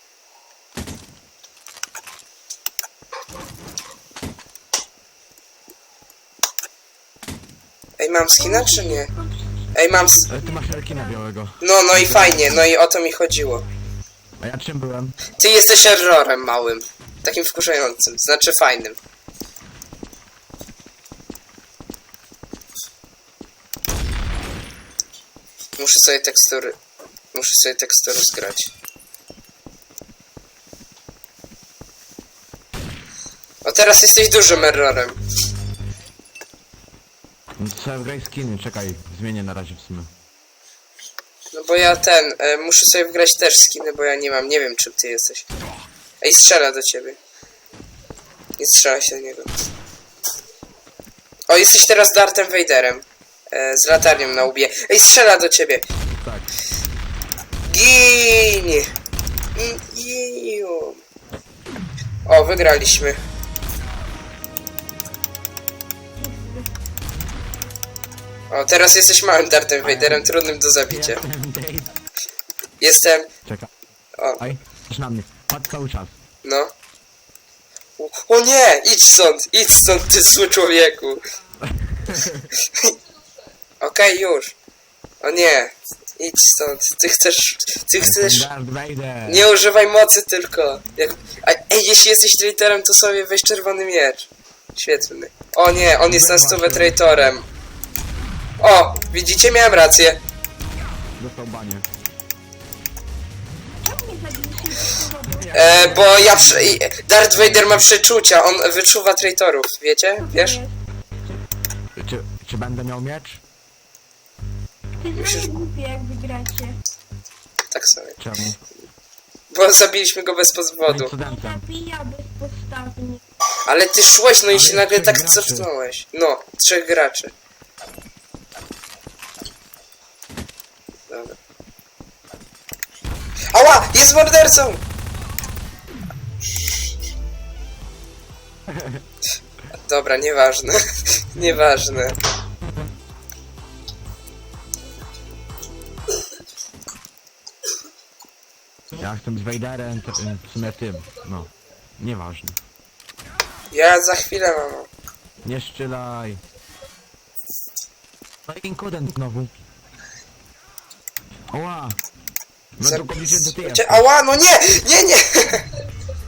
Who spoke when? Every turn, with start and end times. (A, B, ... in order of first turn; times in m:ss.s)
0:08.0-0:09.1 A
0:08.3-0:09.4 B
0:09.7-0:10.3 A
0:10.2-0:11.2 B
0:10.3-0:12.7 C
0:11.6-0:13.6 A
0:14.4-0:15.2 C
0:15.4-0:19.0 A
0:25.8-0:26.8 A
0:27.3-0:28.7 A
0:33.6-0:35.2 A
0:37.6-0:40.1 C
0:41.5-0:45.4 A
0:46.2-0:47.2 A
0:48.6-0:49.5 A
0:51.5-0:55.8 A
0:56.2-0:56.5 C
0:57.7-0:58.9 A
0:59.6-1:01.0 A
1:02.3-1:03.2 A
1:06.2-1:06.7 B
1:08.5-1:11.2 A
1:09.8-1:10.3 C
1:10.9-1:11.9 C
1:12.8-1:13.3 A
1:13.4-1:13.7 C
1:14.2-1:14.5 A
1:14.4-1:16.2 C
1:16.4-1:16.7 A
1:18.0-1:21.2 A
1:21.6-1:22.5 C
1:22.7-1:22.9 A
1:23.8-1:24.6 A
1:25.2-1:28.5 A
1:28.0-1:29.5 C
1:29.3-1:37.5 A
1:36.1-1:37.0 C
1:38.6-1:40.2 A
1:41.2-1:41.9 C
1:43.8-1:45.5 B
1:45.4-1:47.8 C
1:45.5-1:50.6 A
1:50.2-1:50.8 B
1:52.0-1:53.4 C
1:55.0-1:56.8 B
1:55.1-1:55.6 A
1:57.7-1:58.2 A
1:58.2-1:58.6 C
1:59.5-2:01.1 A
2:00.9-2:01.6 C
2:01.2-2:03.2 B
2:03.7-2:07.3 A
2:04.5-2:05.7 C
2:11.1-2:11.4 A
2:13.5-2:14.8 A
2:19.8-2:22.2 A
2:28.9-2:32.6 C
2:33.7-2:34.9 A
2:35.4-2:36.4 C
2:38.5-2:39.5 C
2:41.5-2:42.0 C
2:42.8-2:44.1 C
2:42.8-2:45.7 A